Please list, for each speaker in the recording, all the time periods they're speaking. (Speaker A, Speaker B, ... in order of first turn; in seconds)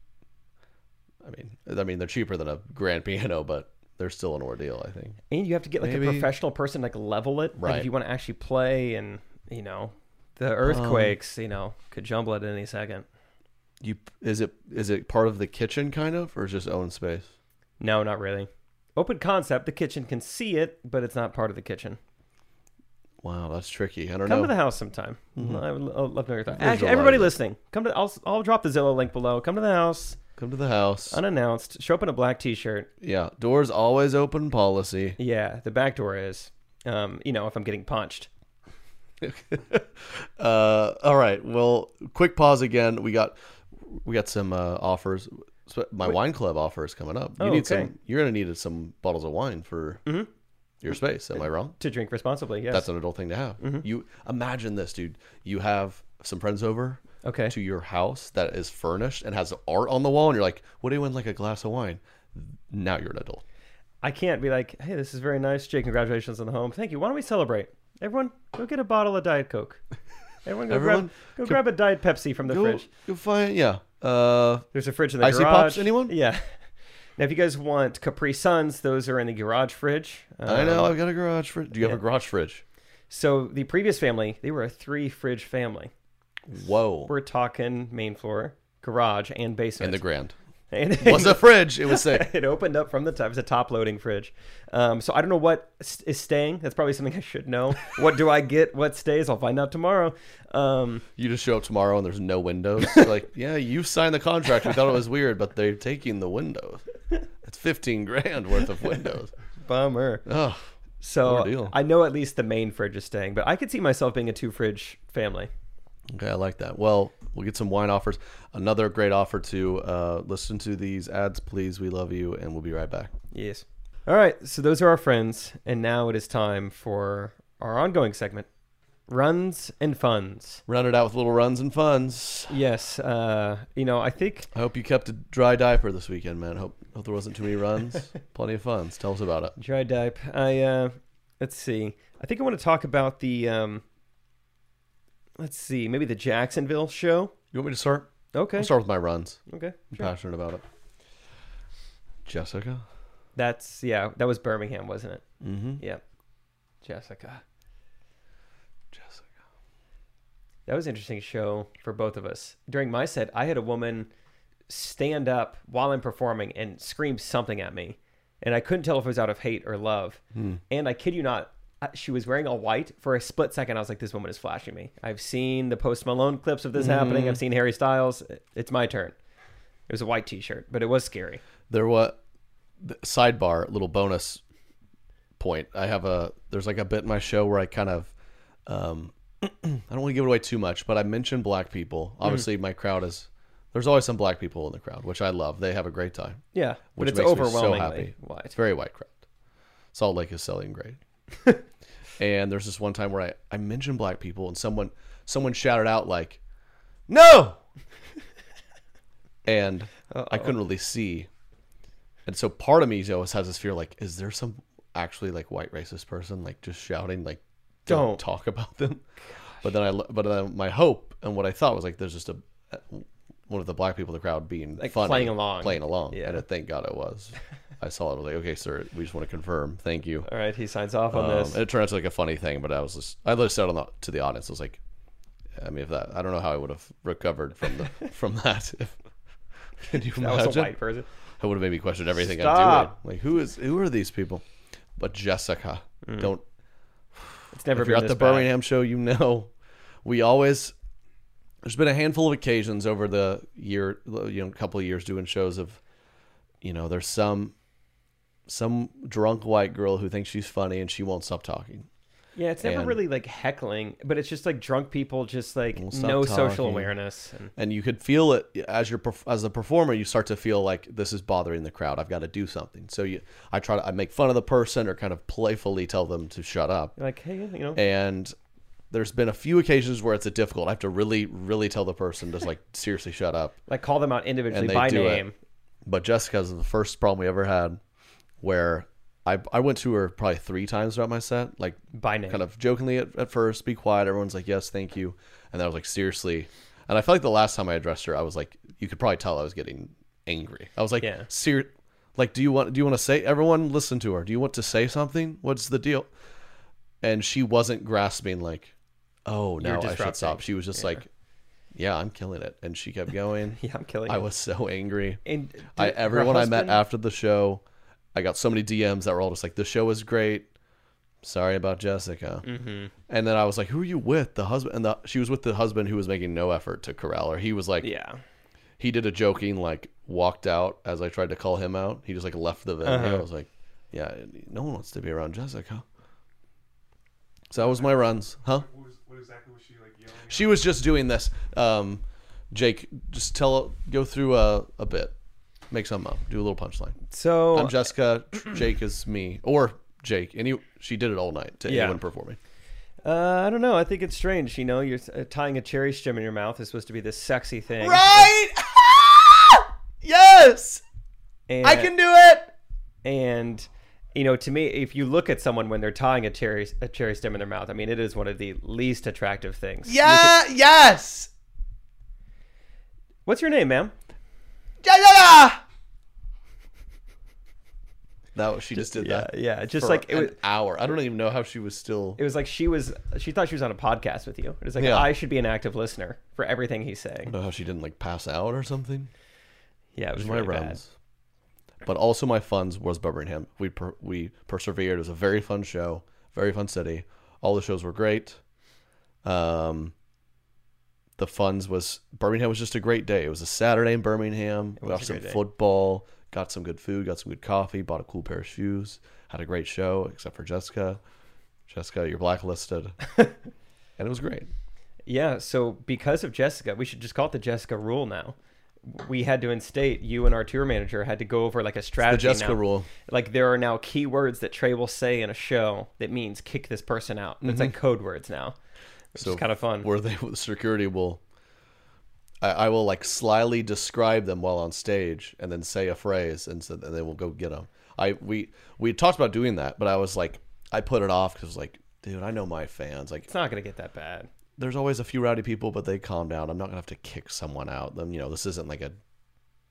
Speaker A: 1.2-5.2, 5.8-6.3, 7.6-7.9, 10.6-11.1, 13.8-17.3, 23.2-24.5, 25.4-25.6, 26.5-27.3, 30.4-31.2, 33.0-35.2, 39.2-50.0, 50.8-51.8, 52.7-63.4, 70.7-71.6, 72.5-74.7, 75.2-76.1, 80.5-82.6, 86.5-87.1, 89.8-90.3, 91.0-92.3, 101.2-106.8, 107.4-109.3, 110.3-110.7, 111.2-111.7, 116.1-123.1, 130.7-132.6, 134.5-139.6, 147.5-149.4, 149.9-150.6, 152.2-152.8, 155.4-155.8, 158.9-159.3, 170.3-170.6, 176.8-177.4, 181.7-182.2, 182.8-184.4, 185.4-188.1, 188.7-196.4, 196.9-199.2, 199.9-201.0, 202.2-206.4, 207.1-207.6, 209.4-211.3, 212.3-219.1, 219.6-230.3, 231.1-234.8, 235.6-238.9, 239.8-240.7, 241.4-244.4, 245.0-246.4, 247.2-249.5, 250.0-250.7, 251.6-255.8, 256.6-257.5, 258.5-261.9, 262.6-263.0, 265.8-266.9, 267.6-276.9, 277.8-278.3, 278.9-283.6, 284.5-285.2, 285.9-287.8, 288.4-306.1, 307.0-308.7, 309.3-311.1, 311.7-315.2, 315.7-317.6, 318.1-320.5, 321.2-322.4, 323.1-327.9, 328.8-335.8, 337.5-338.7, 340.3-345.1, 345.7-347.0, 347.5-352.4, 357.8-360.8, 361.6-362.5, 369.9-371.3, 374.8-375.6, 378.3-382.2, 384.8-385.1, 387.3-389.1, 390.2-390.9, 391.9-398.4, 399.2-399.9, 401.2-411.0, 411.7-413.0, 414.0-414.5, 422.0-422.9, 427.4-427.8, 429.2-431.2, 432.4-443.3, 444.6-449.0
Speaker B: 5.3-13.1, 17.8-22.0, 24.3-30.2, 31.1-32.9, 35.2-38.3, 47.4-47.9, 51.8-52.9, 53.6-53.8, 57.2-57.5, 64.0-69.8, 70.5-72.9, 74.7-76.5, 77.2-80.9, 83.1-85.9, 87.1-90.0, 90.7-101.0, 109.6-110.3, 111.0-115.5, 123.3-128.4, 129.1-130.6, 132.5-134.5, 139.6-143.8, 145.4-147.3, 148.3-148.7, 149.5-150.1, 153.4-155.3, 156.8-157.4, 160.7-164.1, 164.7-179.1, 179.9-181.4, 196.5-198.6, 210.1-210.6, 217.9-218.2, 224.8-226.4, 230.3-231.6, 240.1-241.1, 242.2-242.9, 246.1-246.3, 247.5-248.5, 262.4-267.5, 277.0-277.8, 283.7-285.3, 291.9-292.4, 301.0-301.3, 309.6-311.0, 313.6-314.2, 315.2-316.8, 322.4-322.9, 327.8-328.2, 332.8-333.3, 347.1-347.7, 351.7-352.0, 353.0-358.3, 361.5-361.9, 363.0-370.4, 373.3-373.9, 378.8-380.4, 382.2-387.3, 389.9-390.8, 404.8-405.4, 415.1-428.6, 429.1-429.9, 443.3-444.3
Speaker C: 337.6-340.7